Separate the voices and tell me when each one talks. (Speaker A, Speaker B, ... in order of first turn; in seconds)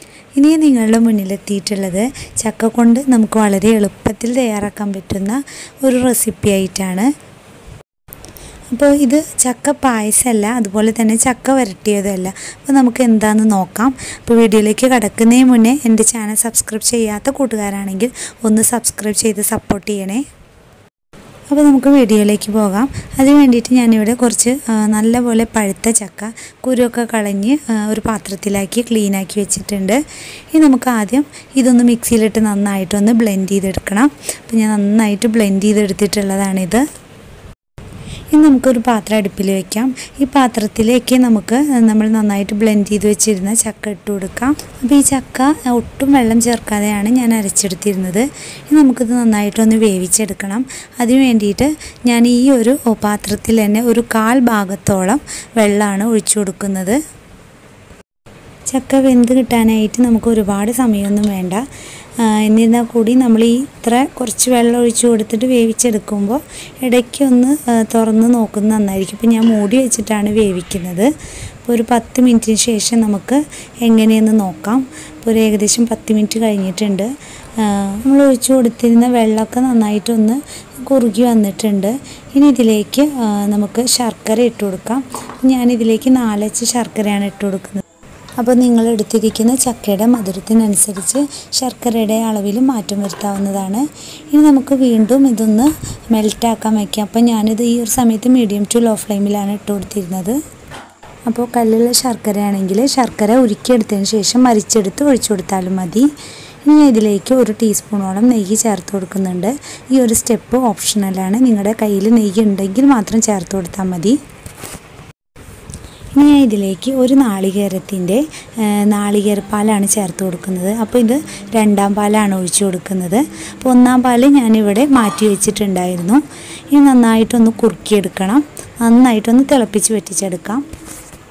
Speaker A: 0.4-7.1, 8.7-20.2, 21.5-30.0, 30.5-36.8, 38.3-57.0, 58.7-61.6, 62.2-71.1, 71.7-87.8, 88.4-100.4, 101.3-106.1, 106.6-114.2, 116.2-130.6